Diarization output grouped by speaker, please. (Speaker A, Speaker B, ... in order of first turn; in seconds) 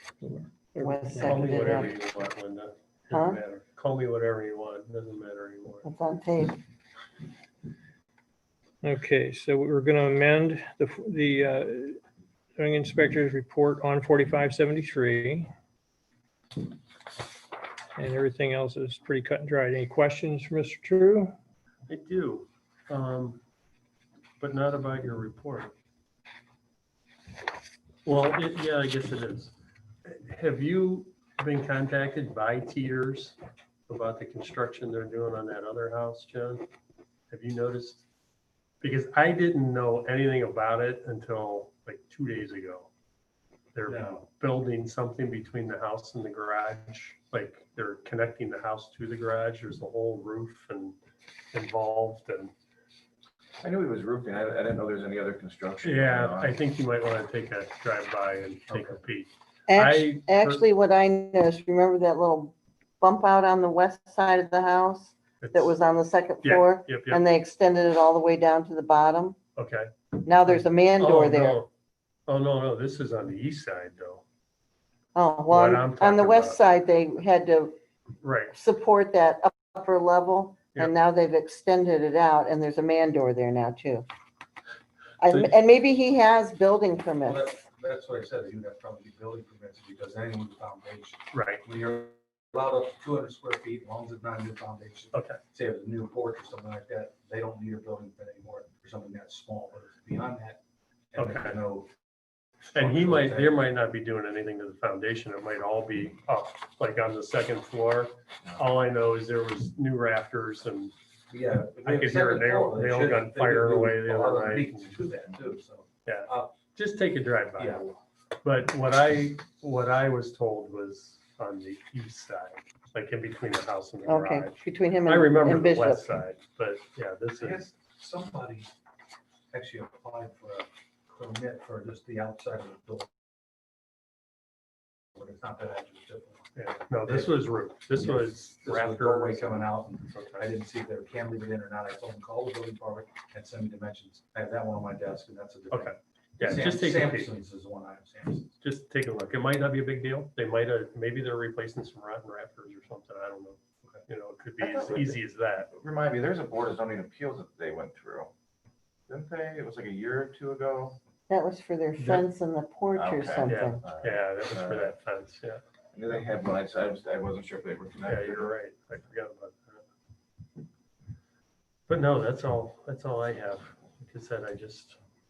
Speaker A: 0.2-1.8, 8.8-12.0, 12.6-15.5, 18.0-21.3
Speaker B: 0.8-1.9, 3.1-3.4, 5.8-6.6, 59.7-69.4, 70.2-71.6, 75.2-77.8, 78.5-84.1, 85.2-87.5, 124.1-126.0, 161.3-163.8
Speaker C: 1.2-5.9, 21.9-23.4, 24.4-25.7, 28.1-29.5, 30.1-33.4, 33.9-36.7, 37.3-38.0, 38.8-42.9, 43.7-51.0, 51.5-52.5, 55.8-60.6, 65.4-65.8, 66.4-67.2, 69.6-69.9, 70.5-71.7, 72.3-74.2, 75.5-76.6, 78.2-78.6, 91.3-91.6, 95.1-95.4, 101.2-101.6, 102.7-110.9, 111.8-115.0, 116.0-117.8, 118.4-127.7, 136.6-140.5, 145.7-147.3, 148.6-155.7, 162.0-162.3, 163.4-165.6, 168.1-169.8, 171.9-175.0
Speaker D: 43.9-44.3, 58.7-59.0, 87.2-100.6, 101.1-101.9, 102.7-103.5, 111.3-116.6, 117.6-118.0, 127.4-128.7, 129.5-133.1, 135.2-136.5, 137.1-148.5
Speaker E: 53.6-56.6, 154.6-155.2, 155.7-158.3, 159.1-161.0, 162.9-164.9, 165.9-168.6